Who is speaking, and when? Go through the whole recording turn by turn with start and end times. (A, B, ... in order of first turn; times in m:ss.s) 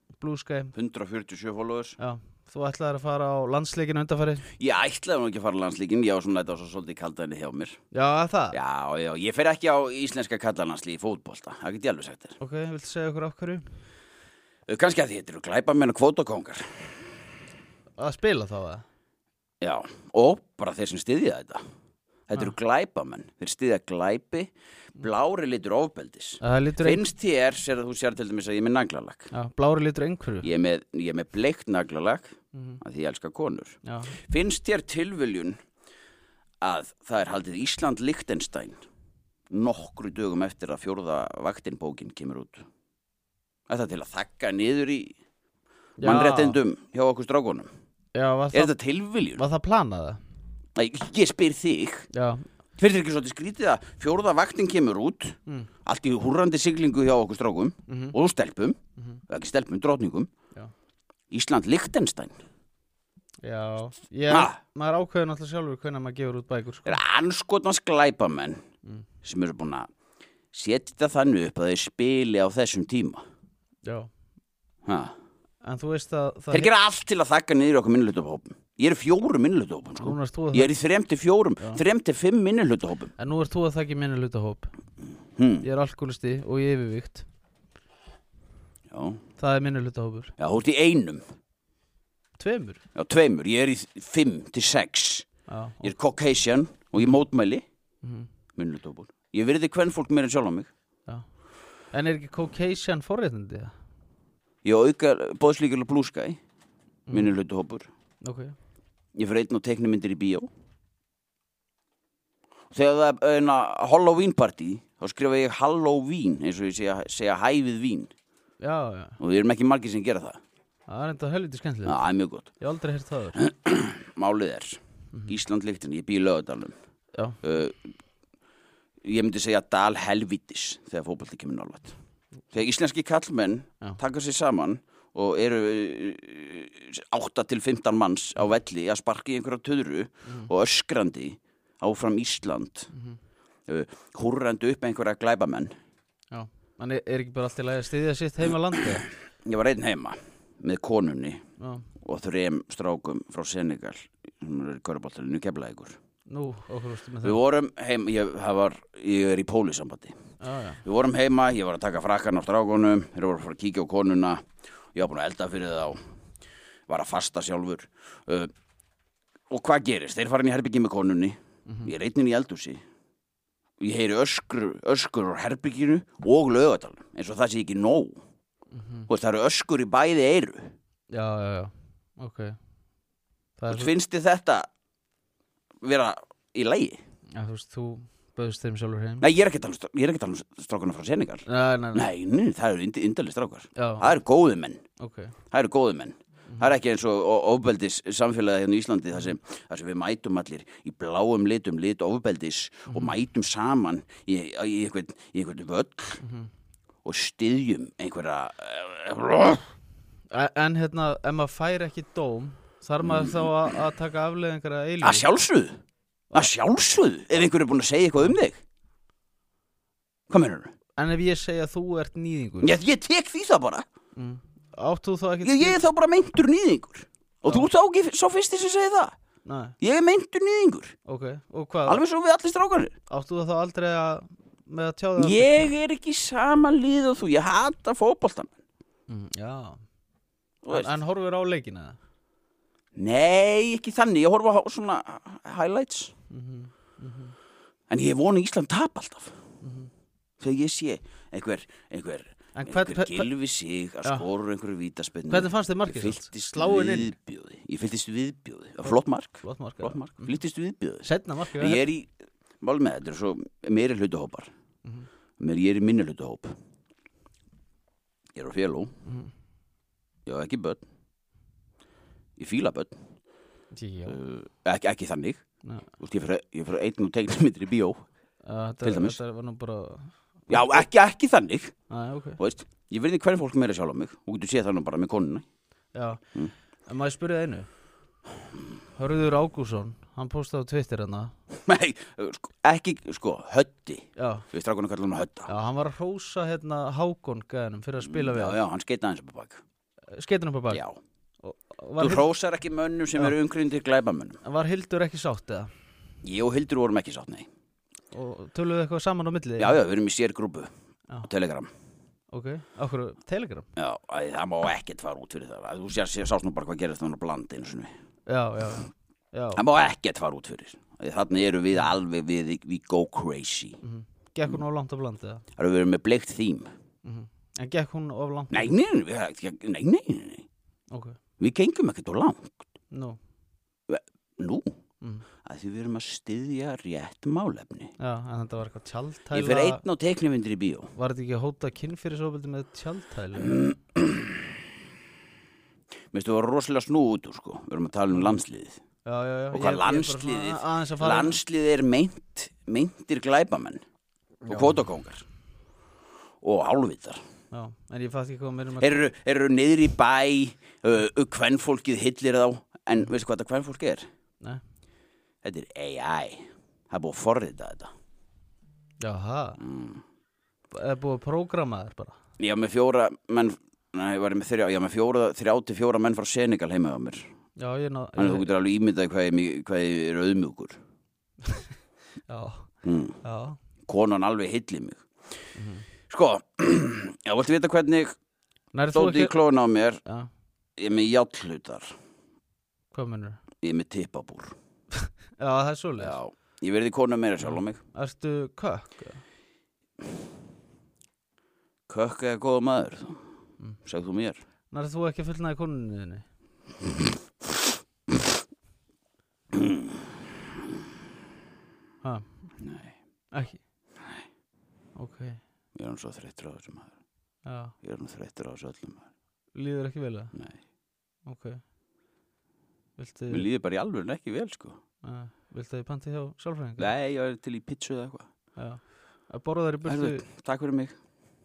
0:00.2-0:00.7 A
0:00.8-0:02.0 B
0:02.0-0:04.5 A
0:04.6-0:07.8 B
0:07.9-0:08.6 A
0:08.5-0:12.4 B
0:12.4-0:13.6 A
0:14.7-0:17.0 B
0:18.0-0:18.8 A
0:19.6-0:21.6 B
0:22.3-0:29.3 B
0:26.4-0:27.0 A
0:29.3-0:30.5 A
0:30.4-0:35.6 B
0:33.8-0:34.2 A
0:36.6-0:38.8 B
0:39.5-0:42.6 B
0:43.7-0:45.2 B
0:46.0-0:47.7 B
0:46.0-0:46.6 A
0:48.2-0:48.7 A
0:48.5-0:49.4 B
0:49.4-0:50.2 A
0:50.8-0:52.1 B
0:52.1-0:52.5 A
0:52.8-0:58.8 B
0:57.9-0:58.2 A
0:59.3-1:00.3 B
1:01.3-1:02.4 B
1:03.4-1:07.0 A
1:04.3-1:04.6 B
1:06.9-1:08.6 B
1:09.2-1:09.9 B
1:10.5-1:13.2 B
1:14.8-1:15.1 B
1:15.6-1:16.7 A
1:16.5-1:23.1 B
1:20.0-1:20.7 A
1:23.2-1:24.7 A
1:25.4-1:25.7 B
1:25.6-1:27.3 A
1:28.9-1:29.2 B
1:29.4-1:30.3 A
1:30.4-1:31.2 B
1:32.4-1:32.8 A
1:33.0-1:35.3 B
1:35.5-1:35.9 A
1:35.8-1:37.6 B
1:38.6-1:40.7 B
1:41.9-1:43.7 A
1:44.6-1:46.4 B
1:47.1-1:47.9 B
1:48.2-1:48.6 A
1:49.2-1:50.5 B
1:52.7-1:58.1 B
1:58.6-1:59.2 A
1:59.2-2:00.4 B
2:00.9-2:02.0 A
2:01.9-2:02.5 B
2:02.6-2:03.4 A
2:03.4-2:06.8 B
2:07.4-2:07.9 B
2:09.0-2:12.0 B
2:12.5-2:22.9 B
2:23.7-2:25.7 B
2:26.3-2:29.1 A
2:29.4-2:31.4 B
2:31.6-2:31.9 A
2:32.0-2:36.0 B
2:36.3-2:37.4 A
2:37.2-2:40.2 B
2:40.4-2:40.8 A
2:40.8-2:46.0 B
2:46.9-2:48.5 B
2:49.5-2:52.8 B
2:51.7-2:51.9 A
2:53.8-2:58.2 B
2:58.7-2:59.1 A
2:59.1-3:00.8 B
3:01.1-3:02.6 A
3:03.6-3:03.9 A
3:03.7-3:04.7 B
3:05.8-3:07.0 B
3:07.4-3:09.2 A
3:09.2-3:14.8 B
3:11.5-3:12.1 A
3:13.8-3:14.1 A
3:15.0-3:15.4 A
3:15.5-3:26.2 B
3:22.9-3:23.2 A
3:26.2-3:26.5 A
3:27.0-3:29.7 B
3:30.3-3:35.3 A
3:33.0-3:33.5 B
3:35.0-3:35.8 B
3:36.3-3:38.6 B
3:40.3-3:40.7 B
3:41.0-3:42.7 A
3:42.6-3:43.9 B
3:44.2-3:45.8 A
3:45.4-3:49.1 B
3:49.4-3:49.8 A
3:49.8-3:51.0 B
3:51.0-3:52.0 A
3:51.9-3:52.9 B
3:53.1-3:55.7 A
3:55.2-3:58.6 B
3:59.1-3:59.8 A
4:00.6-4:01.0 B
4:00.7-4:02.0 A
4:03.0-4:06.1 B
4:06.3-4:07.4 A
4:07.9-4:09.4 B
4:09.6-4:09.9 A
4:10.4-4:24.5 B
4:12.6-4:13.3 A
4:15.3-4:17.1 A
4:19.4-4:20.4 A
4:21.0-4:21.8 A
4:25.4-4:26.5 B
4:28.4-4:28.9 B
4:29.0-4:29.3 A
4:30.3-4:30.8 B
4:32.4-4:33.0 B
4:33.7-4:34.2 A
4:34.1-4:35.4 B
4:36.0-4:38.0 B
4:38.4-4:40.7 A
4:38.8-4:39.2 B
4:40.5-4:41.7 B
4:41.9-4:42.4 A
4:42.4-4:45.4 B
4:45.9-4:46.2 A
4:46.9-4:47.7 A
4:49.0-4:51.3 A
4:51.5-4:55.5 B
4:54.2-4:54.5 A
4:55.5-4:58.6 A
4:58.0-4:59.6 B
5:00.1-5:00.8 A
5:00.7-5:01.0 B
5:01.4-5:02.3 A
5:02.0-5:04.4 B
5:04.4-5:05.7 A
5:06.2-5:07.5 B
5:08.1-5:09.8 A
5:09.6-5:10.7 B
5:11.2-5:11.7 B
5:12.3-5:13.7 A
5:13.8-5:17.9 B
5:18.3-5:19.6 A
5:19.6-5:23.8 B
5:23.8-5:25.4 A
5:25.6-5:26.7 B
5:27.0-5:28.8 A
5:28.5-5:30.4 B
5:30.9-5:31.2 A
5:31.4-5:32.6 B
5:32.9-5:33.2 A
5:33.9-5:34.8 B
5:35.4-5:37.9 B
5:38.0-5:39.8 A
5:39.3-5:40.9 B
5:41.0-5:43.8 A
5:43.5-5:44.4 B
5:46.1-5:48.8 B
5:49.0-5:51.4 A
5:49.5-5:53.8 B
5:54.5-5:55.2 B
5:56.4-5:57.2 B
5:57.5-5:59.0 A
5:58.8-6:04.1 B
6:05.4-6:07.9 B
6:09.0-6:09.6 A
6:09.6-6:10.0 B
6:10.7-6:12.2 A
6:12.4-6:17.3 B
6:17.6-6:18.5 A
6:18.2-6:20.8 B
6:22.3-6:22.7 A
6:22.8-6:23.2 B
6:23.2-6:23.6 A
6:23.9-6:25.0 B
6:25.6-6:25.8 A
6:26.1-6:28.2 B
6:28.7-6:29.4 A
6:28.9-6:30.0 B
6:30.8-6:31.9 B
6:32.9-6:33.4 A
6:33.6-6:34.6 B
6:35.0-6:36.2 A
6:36.0-6:37.8 B
6:37.5-6:39.2 A
6:41.9-6:43.2 B
6:43.8-6:44.4 B
6:44.7-6:46.3 A
6:49.5-6:49.9 B
6:52.0-6:52.5 A
6:52.6-6:52.9 B
6:53.3-6:53.6 A
6:55.0-6:55.4 A
6:55.8-6:57.0 B
6:57.4-6:57.8 A
6:57.8-6:59.1 B
6:59.6-7:00.3 A
7:00.3-7:00.6 B
7:01.3-7:01.6 A
7:03.0-7:03.5 A
7:03.3-7:04.8 B
7:05.0-7:06.9 A
7:06.8-7:08.3 B
7:08.6-7:10.2 A
7:09.9-7:11.0 B